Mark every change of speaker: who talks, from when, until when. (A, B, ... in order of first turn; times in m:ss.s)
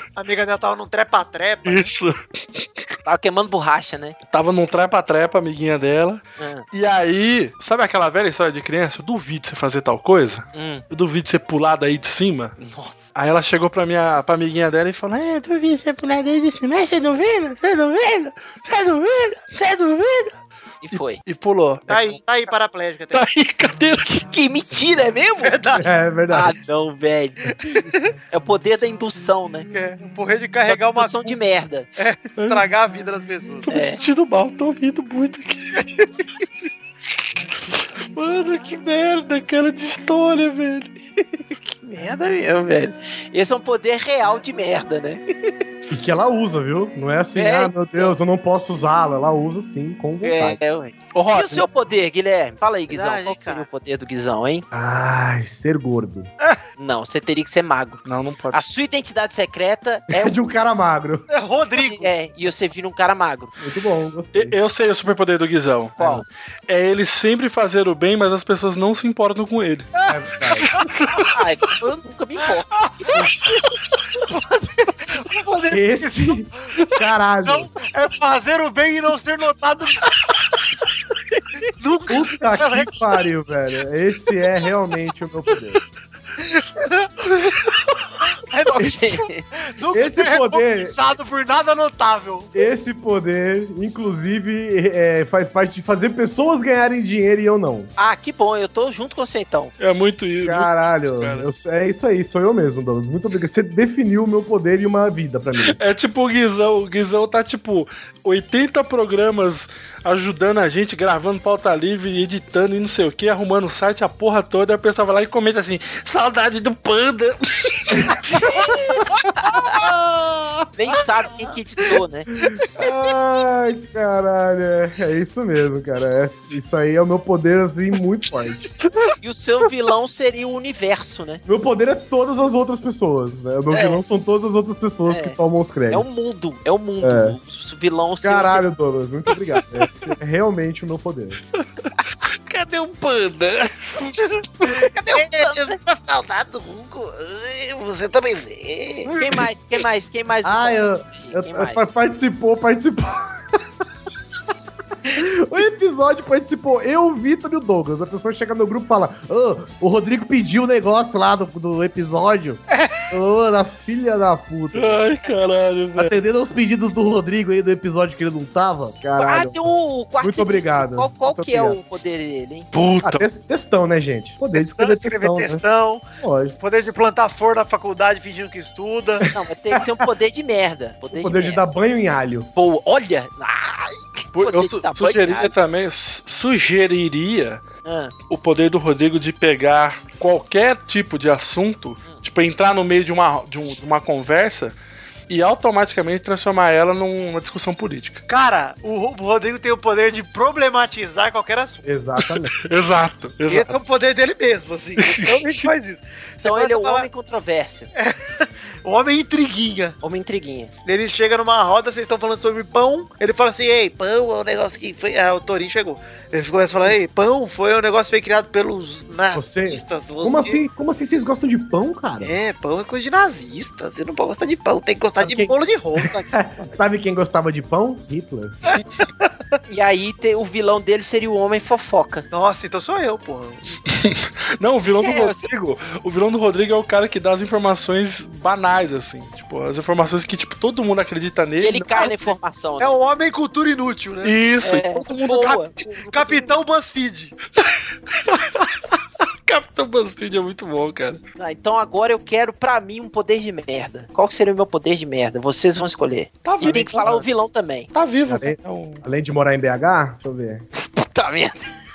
0:00.2-0:01.9 A
0:01.6-0:02.6 B
0:03.0-0:04.2 C
0:04.3-0:12.6 B
0:06.4-0:06.6 C
0:10.5-0:10.8 C
0:12.6-0:13.1 C
0:13.1-0:20.3 B
0:20.8-0:21.2 C
0:20.9-0:21.9 B
0:21.9-0:23.2 A
0:23.1-0:24.3 B
0:24.3-0:25.6 C
0:25.4-0:25.9 A
0:25.7-0:26.5 D
0:26.3-0:27.5 C
0:27.6-0:28.1 A
0:28.3-0:29.7 C
0:29.7-0:31.3 A
0:30.6-0:31.9 C
0:32.0-0:33.6 A
0:32.4-0:32.6 B
0:33.6-0:35.9 B
0:33.7-0:34.0 C
0:38.1-0:40.9 B
0:41.2-0:45.2 C
0:45.9-0:50.6 D
0:47.4-0:48.1 C
0:50.2-0:54.6 C
0:51.1-0:51.6 B
0:52.9-0:53.7 A
0:54.7-0:56.3 D
0:56.8-1:00.3 C
0:58.0-0:58.7 B
1:00.1-1:01.2 D
1:01.3-1:02.1 A
1:01.8-1:03.5 C
1:03.6-1:04.6 D
1:04.3-1:09.9 B
1:06.0-1:06.2 D
1:10.0-1:10.8 D
1:10.7-1:11.2 B
1:11.2-1:13.2 C
1:14.3-1:15.8 C
1:15.7-1:17.7 D
1:17.4-1:20.1 A
1:21.3-1:21.7 C
1:21.8-1:22.9 A
1:22.1-1:25.8 D
1:26.4-1:27.1 A
1:28.5-1:32.5 A
1:28.7-1:29.4 C
1:29.9-1:30.9 D
1:32.5-1:37.9 D
1:38.0-1:39.7 C
1:39.8-1:41.5 B
1:40.4-1:45.8 D
1:45.7-1:58.4 B
1:59.0-1:59.8 C
1:59.4-2:00.7 D
2:00.8-2:02.3 C
2:02.4-2:08.7 D
2:09.2-2:11.4 C
2:11.4-2:16.2 D
2:13.7-2:14.0 C
2:15.1-2:15.4 C
2:15.9-2:18.6 C
2:17.0-2:17.4 D
2:18.2-2:21.4 D
2:22.5-2:24.2 B
2:24.6-2:25.5 C
2:24.9-2:29.1 E
2:29.0-2:29.5 D
2:29.2-2:31.9 C
2:30.4-2:33.3 D
2:35.1-2:45.0 D
2:42.7-2:43.1 A
2:44.7-2:46.1 B
2:45.9-2:51.8 D
2:49.2-2:52.7 C
2:52.7-2:53.2 B
2:53.0-2:55.6 D
2:54.8-2:56.0 A
2:56.2-2:56.6 D
2:56.6-2:59.2 A
2:59.3-2:59.8 D
2:59.3-3:01.6 C
3:01.1-3:02.5 D
3:02.6-3:05.5 C
3:04.3-3:07.6 B
3:07.8-3:08.1 C
3:08.3-3:14.8 B
3:15.3-3:18.2 B
3:18.3-3:21.8 A
3:21.8-3:22.5 D
3:22.6-3:23.7 B
3:23.5-3:27.1 A
3:25.0-3:25.7 B
3:26.4-3:27.9 C
3:28.0-3:30.0 A
3:30.0-3:30.7 C
3:30.8-3:40.6 A
3:34.5-3:34.9 E
3:39.3-3:42.3 D
3:42.2-3:46.3 A
3:45.2-3:48.5 D
3:49.7-3:52.2 C
3:52.3-3:53.8 A
3:53.9-4:02.0 B
3:55.0-3:55.4 C
4:01.6-4:03.0 C
4:02.8-4:04.4 A
4:04.2-4:05.6 B
4:04.6-4:06.5 C
4:05.3-4:07.4 A
4:08.2-4:08.6 B
4:09.4-4:11.2 B
4:11.4-4:17.9 C
4:16.6-4:17.2 B
4:16.6-4:17.1 D
4:17.9-4:19.0 B
4:18.2-4:20.6 D
4:20.8-4:21.7 C